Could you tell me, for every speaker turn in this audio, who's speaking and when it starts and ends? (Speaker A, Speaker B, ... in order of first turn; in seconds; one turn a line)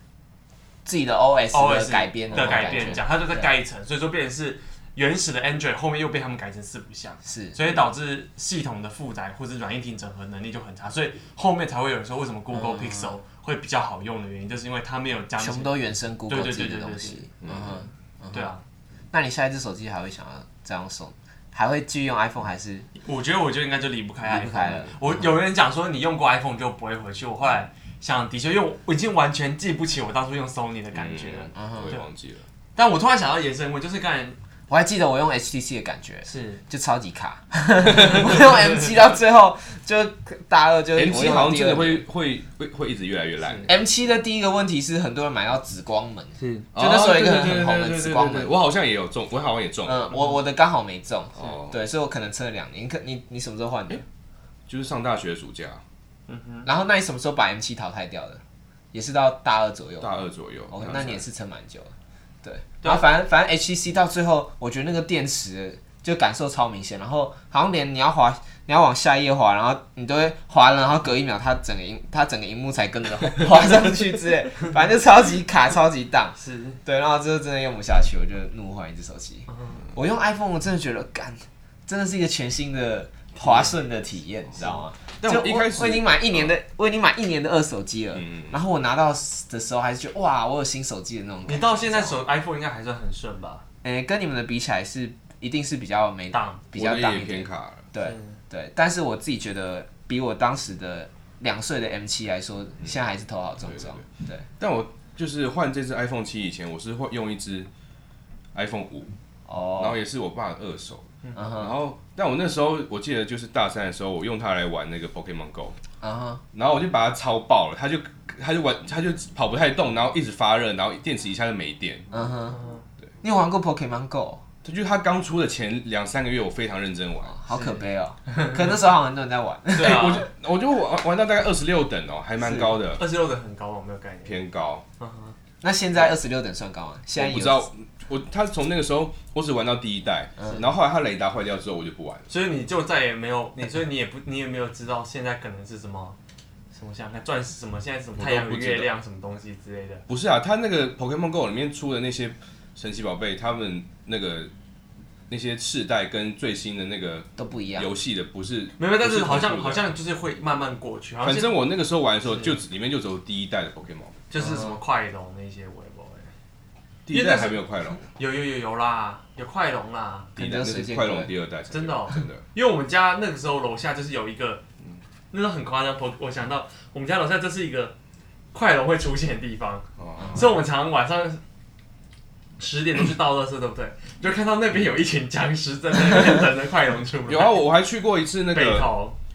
Speaker A: 0.8-3.5
Speaker B: 1.5-15.7
Speaker A: 7.2-7.6
Speaker A: 12.5-13.1
Speaker A: 15.4-18.5
Speaker B: 16.3-17.3
Speaker C: 17.4-17.9
Speaker B: 18.3-18.6
Speaker A: 19.1-22.9
Speaker B: 23.0-32.1
Speaker A: 24.2-25.1
Speaker C: 24.6-24.9
Speaker C: 30.9-32.4
Speaker A: 31.5-31.9
Speaker B: 32.8-34.4
Speaker A: 34.7-42.0
Speaker B: 36.2-36.6
Speaker B: 38.0-38.9
Speaker C: 40.9-43.8
Speaker B: 43.4-43.7
Speaker A: 43.7-48.5
Speaker C: 46.7-50.1
Speaker A: 49.8-54.0
Speaker C: 51.4-51.7
Speaker C: 54.7-55.8
Speaker B: 56.3-56.7
Speaker A: 56.6-58.4
Speaker A: 58.9-60.1
Speaker C: 60.0-61.2
Speaker A: 60.7-61.9
Speaker A: 62.4-92.2
Speaker B: 76.4-76.8
Speaker B: 79.5-79.8
Speaker B: 83.4-83.7
Speaker C: 85.2-86.6
Speaker C: 88.1-88.6
Speaker B: 91.5-93.6
Speaker A: 93.8-104.4
Speaker B: 96.3-96.6
Speaker C: 96.7-97.8
Speaker B: 98.0-98.4
Speaker C: 103.6-104.0
Speaker C: 104.6-107.7
Speaker C: 108.5-109.1
Speaker A: 109.5-110.0
Speaker C: 109.8-115.8
Speaker A: 111.3-111.7
Speaker A: 116.0-116.4
Speaker C: 116.5-122.1
Speaker A: 122.1-122.6
Speaker B: 122.5-122.8
Speaker A: 123.2-124.4
Speaker C: 124.6-127.4
Speaker A: 127.3-130.3
Speaker B: 127.5-128.6
Speaker C: 129.7-133.0
Speaker B: 129.8-130.2
Speaker A: 132.4-132.7
Speaker B: 133.0-134.4
Speaker C: 134.2-134.8
Speaker B: 135.0-135.3
Speaker A: 135.6-137.7
Speaker C: 137.2-142.3
Speaker B: 142.3-146.2
Speaker B: 146.7-150.0
Speaker C: 148.2-148.9
Speaker C: 150.1-154.5
Speaker C: 155.3-159.9
Speaker A: 157.4-157.9
Speaker B: 158.8-161.5
Speaker C: 161.2-164.2
Speaker B: 162.3-162.5
Speaker B: 164.3-166.3
Speaker A: 164.4-164.8
Speaker C: 167.1-168.1
Speaker B: 167.1-170.3
Speaker A: 170.3-171.3
Speaker C: 170.3-172.4
Speaker B: 171.7-174.6
Speaker B: 175.3-177.9
Speaker B: 178.5-181.4
Speaker C: 180.0-180.5
Speaker A: 180.2-180.5
Speaker B: 182.6-187.6
Speaker C: 187.3-188.9
Speaker B: 188.5-189.2